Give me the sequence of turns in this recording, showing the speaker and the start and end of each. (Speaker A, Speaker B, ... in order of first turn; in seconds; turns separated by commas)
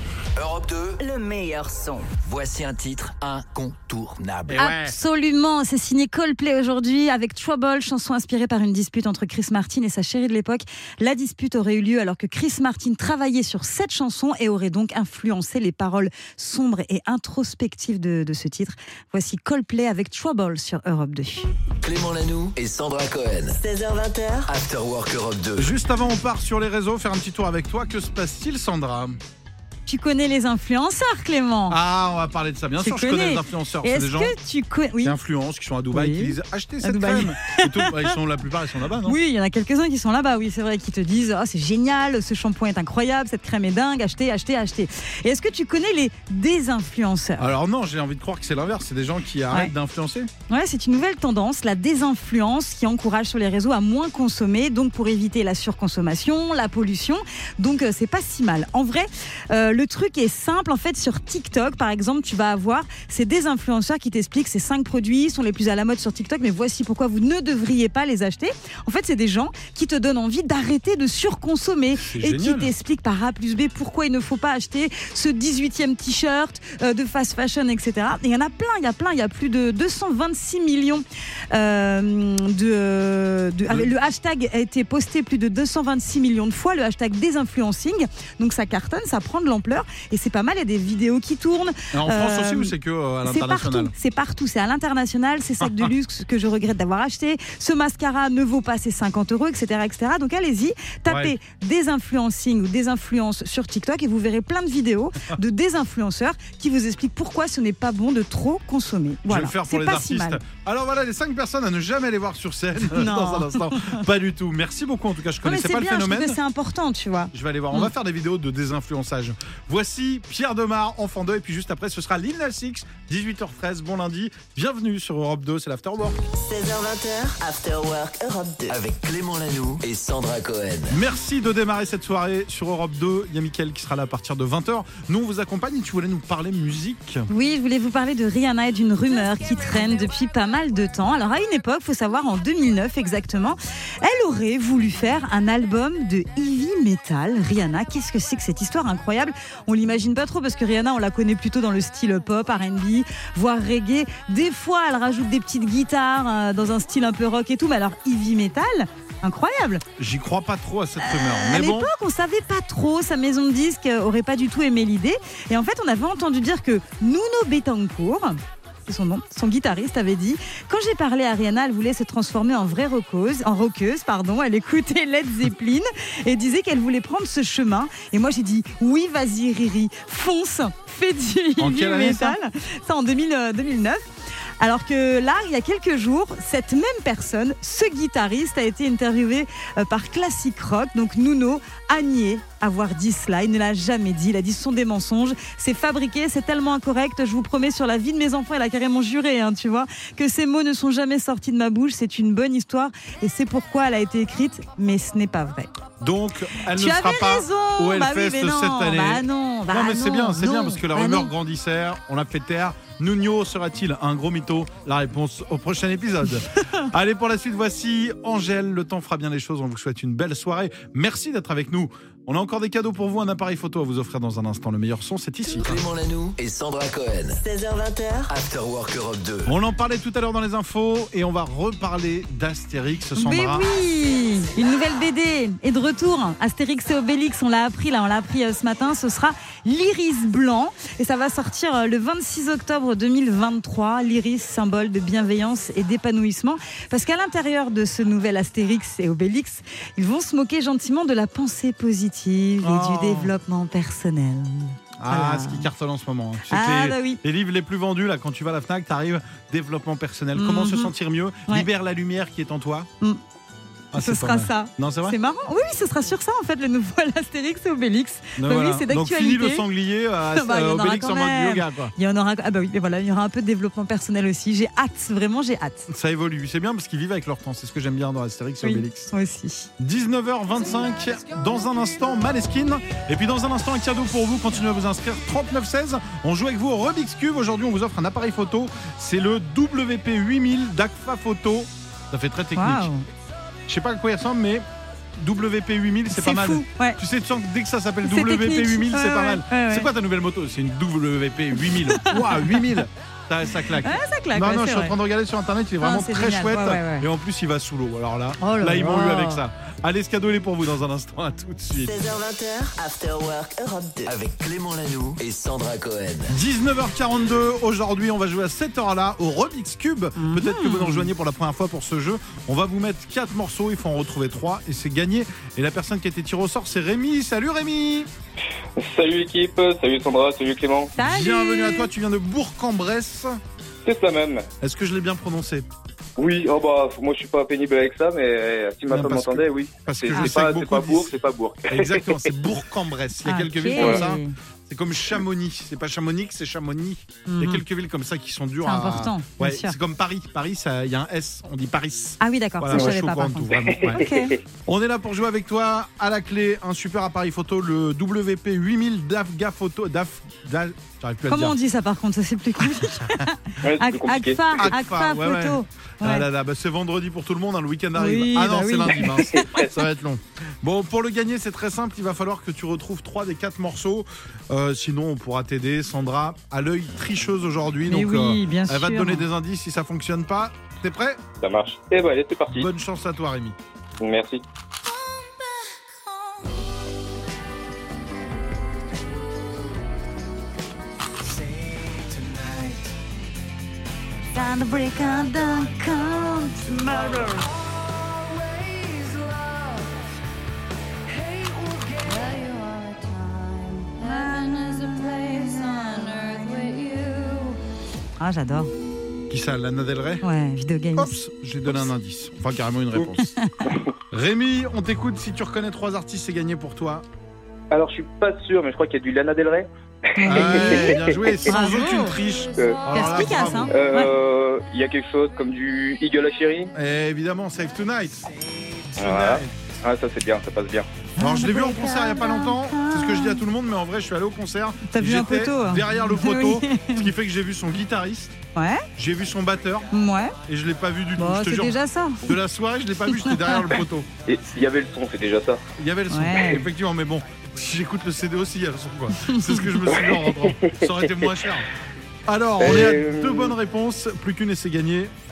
Speaker A: 0.4-1.0, Speaker B: 1.0-2.1, Speaker A: 2.1-4.6, Speaker C: 4.5-5.0, Speaker D: 4.5-21.5, Speaker A: 21.8-23.6, Speaker B: 23.6-24.5, Speaker A: 24.5-25.7, Speaker C: 25.6-29.2, Speaker D: 29.9-31.8, Speaker C: 31.7-34.4, Speaker D: 32.8-35.1, Speaker C: 35.0-39.2, Speaker D: 35.9-38.2, Speaker D: 39.0-47.5, Speaker C: 47.4-50.3, Speaker D: 50.5-92.7, Speaker C: 72.0-72.7, Speaker C: 91.9-93.9, Speaker D: 93.2-110.4, Speaker C: 95.6-95.9, Speaker C: 101.1-101.3, Speaker C: 109.3-116.4, Speaker D: 112.8-114.0, Speaker D: 115.4-117.9, Speaker C: 117.3-126.2, Speaker B: 126.3-128.8, Speaker A: 128.7-131.0, Speaker C: 130.9-137.3, Speaker D: 137.3-159.8, Speaker C: 160.0-161.9, Speaker D: 161.0-184.0, Speaker C: 181.6-182.4, Speaker D: 184.6-205.7, Speaker C: 206.0-225.8, Speaker D: 206.7-211.3, Speaker A: 225.6-227.4, Speaker B: 227.4-228.3, Speaker A: 228.3-229.5, Speaker C: 229.5-233.7, Speaker D: 233.2-255.7, Speaker C: 252.6-253.3, Speaker C: 255.0-262.9, Speaker D: 256.5-257.2, Speaker D: 260.4-260.9, Speaker C: 263.9-265.2, Speaker D: 264.0-269.6, Speaker C: 268.4-271.9, Speaker D: 270.3-275.9, Speaker C: 275.9-279.1, Speaker D: 278.6-279.7, Speaker C: 279.8-292.9, Speaker D: 292.6-293.1, Speaker C: 293.7-294.6, Speaker C: 295.2-312.0, Speaker D: 296.1-297.0, Speaker D: 298.1-299.9, Speaker D: 301.9-302.6, Speaker D: 303.8-305.0, Speaker D: 305.8-307.1, Speaker D: 308.4-309.4, Speaker B: 311.8-314.1, Speaker A: 314.1-316.3, Speaker C: 316.3-328.1, Speaker D: 320.2-321.1, Speaker E: 328.8-330.9, Speaker D: 331.0-331.9, Speaker C: 331.0-333.4, Speaker E: 333.9-334.5, Speaker C: 334.6-335.7, Speaker E: 336.2-342.2, Speaker C: 338.9-341.2, Speaker C: 341.7-354.1, Speaker D: 343.2-344.3, Speaker E: 343.8-344.0, Speaker D: 347.3-347.6, Speaker D: 348.6-349.8, Speaker D: 352.2-354.4, Speaker E: 353.6-354.4, Speaker C: 354.6-361.6, Speaker D: 361.3-366.2, Speaker C: 362.6-363.3, Speaker E: 363.6-364.6, Speaker C: 364.6-381.2, Speaker D: 367.9-369.7, Speaker D: 377.9-379.3, Speaker E: 381.4-382.7, Speaker C: 382.5-383.6, Speaker E: 384.0-384.4, Speaker D: 394.3-397.6, Speaker D: 401.8-407.6, Speaker D: 408.2-408.7, Speaker C: 409.3-410.2, Speaker D: 410.2-411.2, Speaker C: 411.0-413.3, Speaker D: 413.2-413.7, Speaker C: 414.1-417.1, Speaker E: 417.7-421.4, Speaker D: 420.2-422.2, Speaker C: 420.3-423.8, Speaker E: 422.6-422.9, Speaker D: 422.9-424.1, Speaker E: 423.7-426.7, Speaker C: 426.7-428.2, Speaker C: 428.9-429.5, Speaker E: 429.0-430.9, Speaker D: 431.2-433.4, Speaker C: 431.2-438.4, Speaker D: 434.9-437.1, Speaker D: 438.6-438.9, Speaker C: 439.0-439.9, Speaker D: 439.9-440.4, Speaker C: 440.5-444.1, Speaker D: 441.2-442.3, Speaker D: 443.1-443.7, Speaker E: 444.3-445.7, Speaker C: 445.7-451.7, Speaker D: 446.1-446.6, Speaker D: 449.2-449.7, Speaker E: 450.0-451.3, Speaker C: 452.3-455.1, Speaker E: 452.6-453.6